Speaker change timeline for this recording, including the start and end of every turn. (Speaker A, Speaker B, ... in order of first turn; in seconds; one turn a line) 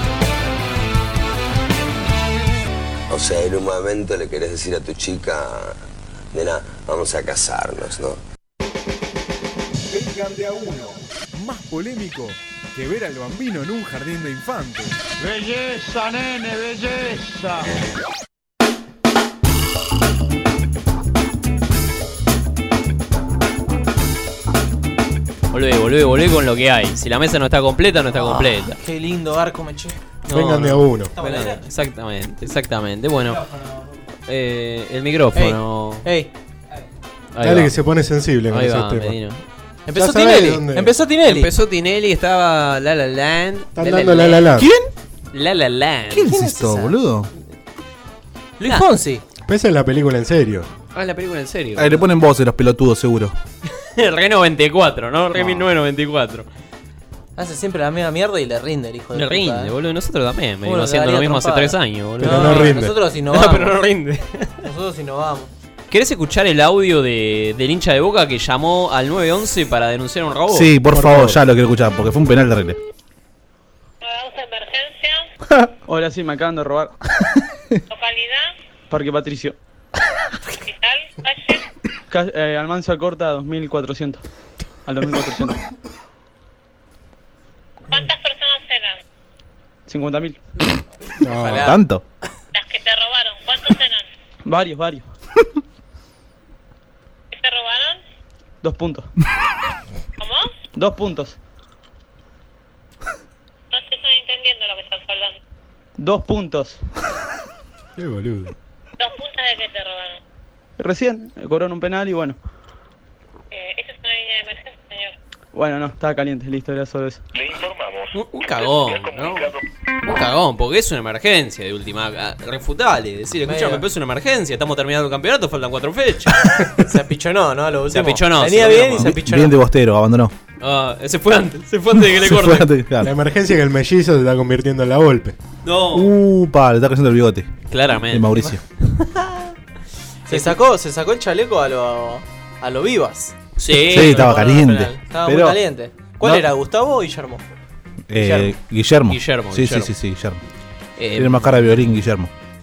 Speaker A: 3.1-5.8
Speaker A: 6.3-8.2
Speaker B: 11.3-14.9
Speaker C: 15.2-17.8
Speaker D: 25.5-28.8
Speaker E: 28.1-30.0
Speaker D: 30.3-33.5
Speaker F: 30.3-31.1
Speaker E: 31.2-31.6
Speaker D: 34.3-36.1
Speaker E: 35.3-36.3
Speaker D: 37.3-37.7
Speaker F: 37.4-39.2
Speaker D: 38.5-39.4
Speaker E: 39.9-41.5
Speaker F: 40.0-40.9
Speaker D: 41.2-44.4
Speaker F: 43.8-44.7
Speaker E: 44.1-44.4
Speaker G: 44.6-44.9
Speaker D: 45.3-46.5
Speaker G: 46.1-47.3
Speaker E: 46.4-46.9
Speaker E: 48.6-49.2
Speaker F: 49.5-50.7
Speaker D: 50.9-52.0
Speaker G: 51.8-53.4
Speaker D: 53.8-56.5
Speaker E: 55.4-55.6
Speaker E: 57.4-59.7
Speaker D: 59.1-64.6
Speaker E: 60.6-63.8
Speaker F: 62.2-63.0
Speaker E: 64.6-65.5
Speaker D: 65.9-70.7
Speaker G: 70.5-72.8
Speaker F: 70.9-71.4
Speaker H: 74.0-75.3
Speaker I: 75.9-77.0
Speaker H: 77.9-78.5
Speaker I: 78.9-79.6
Speaker H: 80.6-81.6
Speaker I: 82.1-84.2
Speaker I: 84.9-85.6
Speaker H: 87.9-89.0
Speaker I: 89.9-90.4
Speaker F: 91.2-91.7
Speaker E: 91.3-91.8
Speaker G: 91.5-92.0
Speaker H: 92.5-94.1
Speaker I: 94.5-95.1
Speaker H: 97.3-98.0
Speaker I: 98.6-99.1
Speaker H: 100.2-100.5
Speaker I: 100.8-101.4
Speaker H: 103.7-105.4
Speaker I: 106.0-106.8
Speaker F: 108.0-108.5
Speaker H: 109.0-110.2
Speaker I: 110.8-112.4
Speaker H: 113.5-115.1
Speaker I: 115.5-117.2
Speaker D: 118.1-119.5
Speaker D: 120.0-126.7
Speaker E: 123.5-123.8
Speaker E: 126.8-129.6
Speaker D: 127.9-129.2
Speaker G: 129.0-130.3
Speaker D: 130.6-132.7
Speaker G: 131.9-133.1
Speaker F: 133.0-135.4
Speaker D: 135.6-136.1
Speaker G: 135.9-138.6
Speaker D: 137.7-139.1
Speaker E: 140.3-143.3
Speaker D: 140.3-140.6
Speaker D: 143.6-144.5
Speaker G: 143.7-145.6
Speaker E: 143.9-147.4
Speaker G: 148.1-150.4
Speaker E: 148.2-148.6
Speaker D: 149.1-149.9
Speaker D: 151.0-151.9
Speaker G: 151.2-152.3